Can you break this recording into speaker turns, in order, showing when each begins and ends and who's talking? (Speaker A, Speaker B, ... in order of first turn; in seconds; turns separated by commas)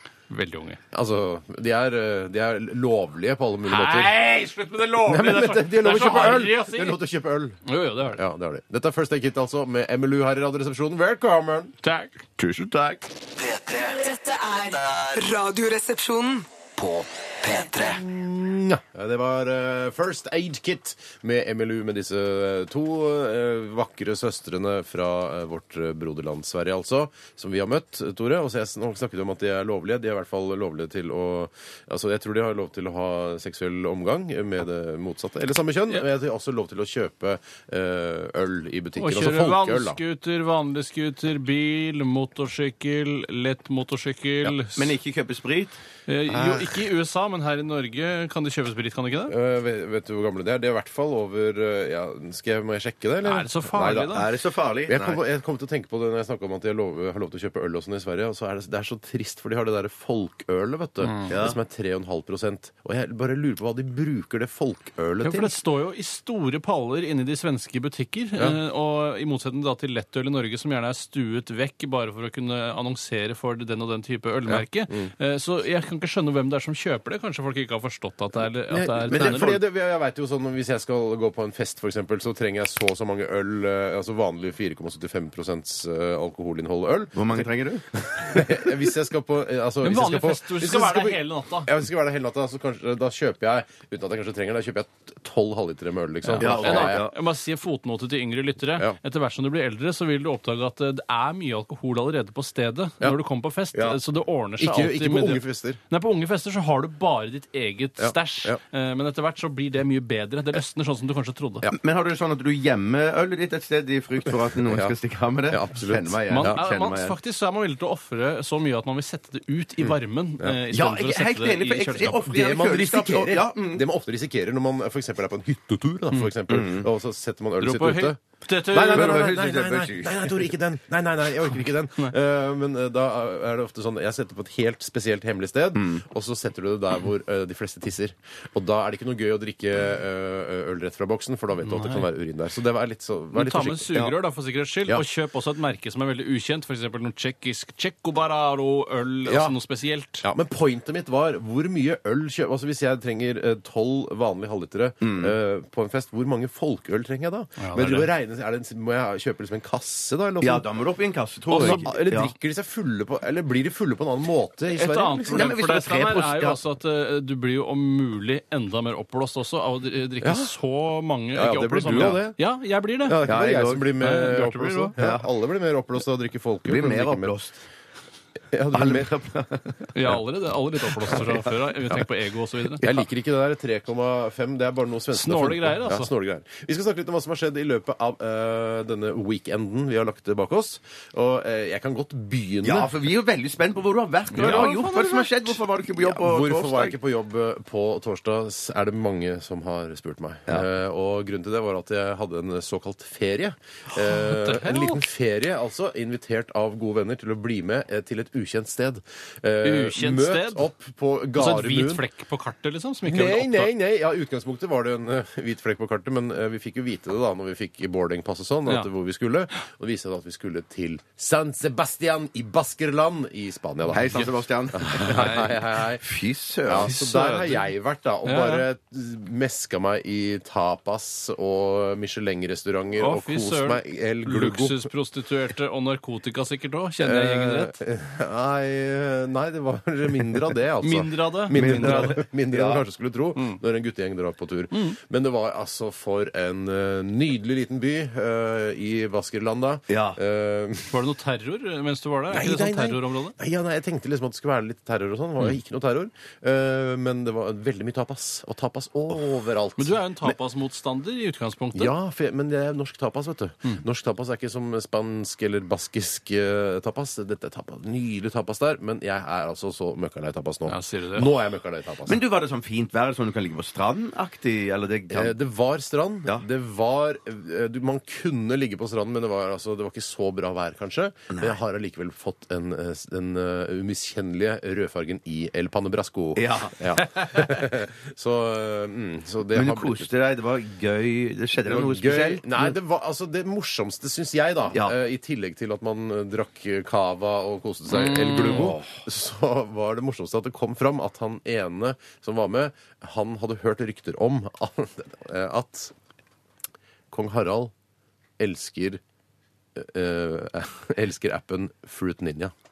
Speaker A: 0.3-0.8, Speaker B: 0.9-4.1, Speaker A: 3.6-7.0, Speaker B: 5.0-7.6, Speaker A: 7.6-8.2, Speaker B: 8.1-11.8, Speaker A: 11.8-12.2, Speaker C: 12.4-13.1, Speaker D: 13.4-15.2, Speaker E: 14.0-16.5, Speaker D: 16.8-18.0, Speaker B: 17.9-40.0, Speaker A: 39.0-44.9, Speaker C: 44.7-45.8, Speaker A: 46.1-49.4, Speaker B: 46.3-46.7, Speaker B: 49.3-53.5, Speaker A: 53.2-54.3, Speaker C: 53.7-55.2, Speaker B: 54.9-65.5, Speaker C: 61.3-61.6, Speaker A: 65.2-79.6, Speaker B: 74.5-75.1, Speaker B: 78.7-87.4, Speaker C: 79.1-79.6, Speaker C: 87.1-88.0, Speaker B: 88.1-97.1, Speaker A: 89.8-91.7, Speaker A: 96.2-111.7, Speaker C: 96.4-97.1, Speaker B: 104.6-105.8, Speaker B: 108.0-108.6, Speaker C: 111.6-117.2, Speaker B: 114.6-114.9, Speaker B: 115.5-116.6, Speaker A: 116.3-122.3, Speaker B: 119.8-120.6, Speaker C: 120.7-123.8, Speaker B: 122.3-143.9, Speaker C: 126.5-126.9, Speaker A: 127.6-129.3, Speaker C: 128.9-130.5, Speaker C: 135.8-136.0, Speaker A: 141.6-142.1, Speaker A: 143.3-150.2, Speaker B: 149.2-149.6, Speaker B: 150.2-160.7, Speaker C: 155.0-155.3, Speaker A: 157.6-158.1, Speaker C: 160.4-162.3, Speaker B: 161.5-165.5, Speaker A: 161.5-161.9, Speaker A: 164.7-173.2, Speaker C: 165.3-166.6, Speaker B: 170.2-170.5, Speaker B: 171.3-172.4, Speaker C: 171.9-172.2, Speaker B: 173.0-177.3, Speaker C: 173.2-173.9, Speaker A: 174.0-174.9, Speaker C: 175.0-175.3, Speaker C: 176.6-177.6, Speaker B: 178.5-179.2, Speaker C: 178.7-179.8, Speaker A: 179.9-182.8, Speaker B: 181.1-182.0, Speaker B: 182.8-192.9, Speaker A: 185.1-186.1, Speaker C: 192.6-197.0, Speaker A: 194.3-195.6, Speaker B: 194.4-194.7, Speaker B: 196.0-212.0, Speaker A: 203.9-205.0, Speaker A: 209.6-210.7, Speaker A: 211.3-213.7, Speaker B: 213.0-226.0, Speaker C: 223.9-225.5, Speaker A: 224.9-225.6, Speaker C: 226.0-227.6, Speaker B: 226.7-234.9, Speaker A: 226.8-227.3, Speaker A: 228.2-228.6, Speaker A: 233.0-237.8, Speaker B: 237.0-251.0, Speaker A: 240.8-242.2, Speaker C: 241.5-242.8, Speaker A: 244.7-245.0, Speaker C: 249.9-250.2, Speaker A: 250.9-253.3, Speaker B: 252.3-260.0, Speaker A: 259.8-261.9, Speaker B: 261.7-272.2, Speaker A: 270.7-271.3, Speaker C: 272.1-275.3, Speaker B: 275.1-290.1, Speaker C: 281.3-281.6, Speaker C: 286.4-286.8, Speaker C: 289.5-292.7, Speaker B: 291.6-305.9, Speaker A: 297.9-298.8, Speaker C: 298.5-298.8, Speaker B: 307.1-307.7, Speaker B: 308.4-309.0, Speaker B: 309.7-312.5